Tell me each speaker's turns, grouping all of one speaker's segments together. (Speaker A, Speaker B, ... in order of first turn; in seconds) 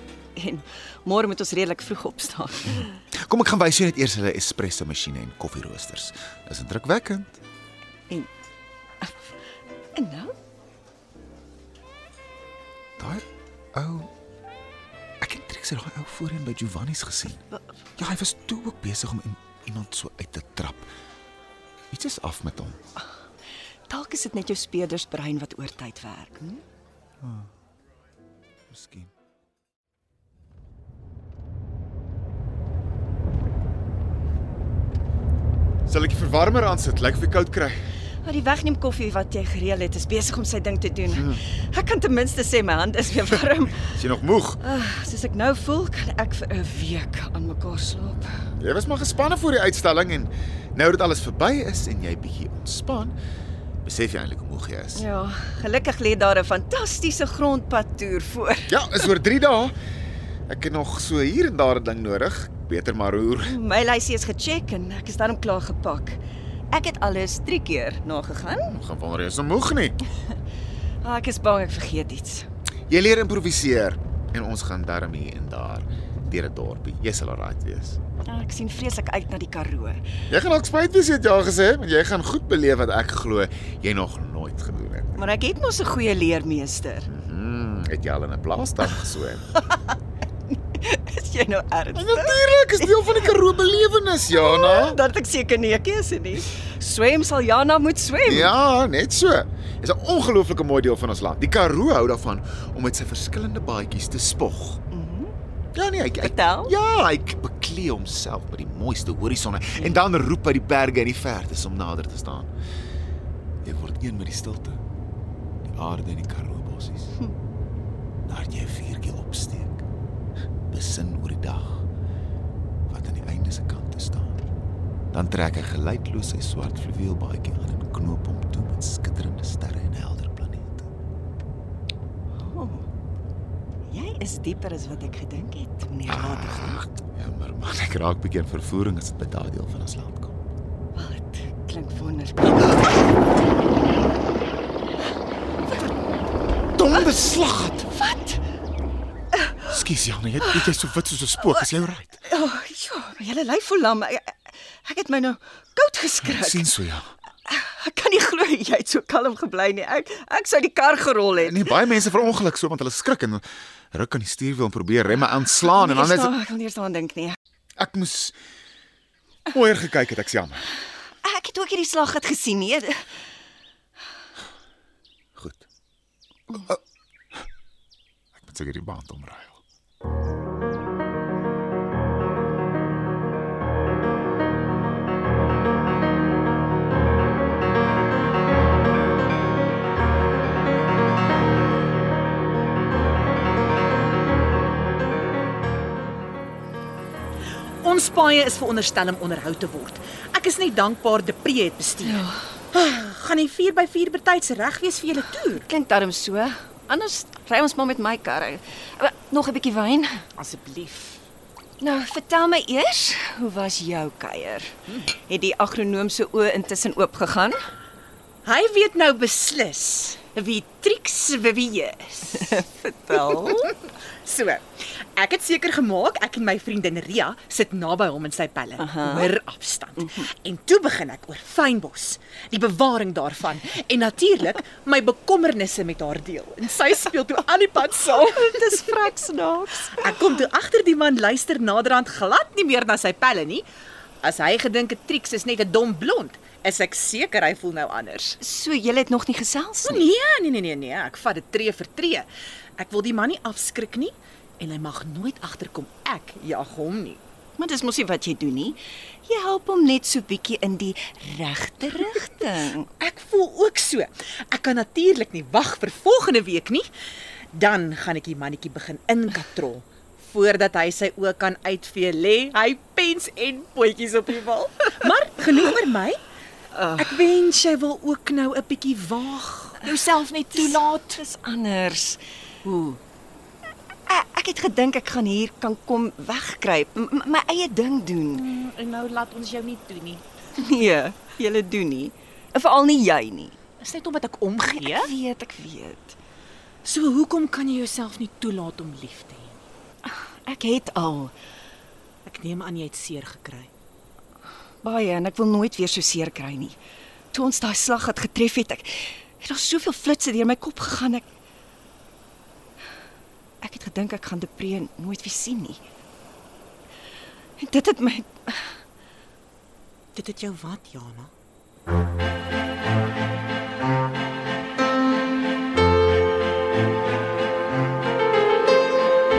Speaker A: 0.4-3.0, 9.9-10.3, 23.9-26.6, 38.2-43.9, 44.6-48.5, 55.0-59.0, 63.4-66.2, 66.7-68.7, 71.0-72.5, 78.2-80.0, 85.2-87.1, 90.7-93.3, 94.3-98.5, 104.9-105.3, 106.2-106.7, 109.8-110.0, 132.4-132.9, 133.9-136.8, 140.9-142.9, 147.9-148.4, 149.4-149.7, 152.2-156.7, 157.5-161.8, 165.7-167.4, 171.2-173.1, 202.0-202.5, 205.6-210.3, 211.8-214.7, 215.3-217.6, 222.3-223.7, 228.8-229.3, 238.1-240.2, 248.4-250.1, 257.6-262.9, 276.8-277.0, 280.5-282.2, 284.1-288.4, 290.6-293.5, 294.7-296.2, 300.1-301.3, 304.8-306.8, 307.3-311.3, 313.6-315.8, 317.6-318.7
Speaker B: 3.3-7.4, 13.0-14.1, 15.2-17.4, 18.0-20.9, 21.9-22.8, 27.2-27.5, 28.7-29.1, 35.9-37.8, 41.1-41.4, 43.8-44.6, 48.5-53.1, 53.8-55.0, 58.7-59.8, 60.5-63.6, 68.7-70.0, 72.9-78.0, 80.3-85.2, 87.1-89.5, 92.0-95.0, 98.2-104.8, 105.7-112.5, 113.6-114.8, 115.7-117.1, 118.3-119.8, 120.7-121.9, 122.9-124.4, 125.1-130.9, 136.1-140.3, 146.8-147.9, 149.7-152.2, 156.2-157.1, 161.4-166.3, 167.8-168.3, 169.5-170.7, 175.4-175.7, 176.5-176.8, 178.3-179.6
Speaker C: 197.8-202.2, 202.7-205.7, 210.4-211.2, 218.4-238.9, 240.0-243.7, 244.2-248.4, 249.8-252.3, 252.8-257.2, 263.0-266.9, 267.5-276.2, 276.9-281.2, 282.6-283.0, 288.3-290.2, 293.8-295.1, 296.9-299.6, 302.3-303.7, 320.1-321.3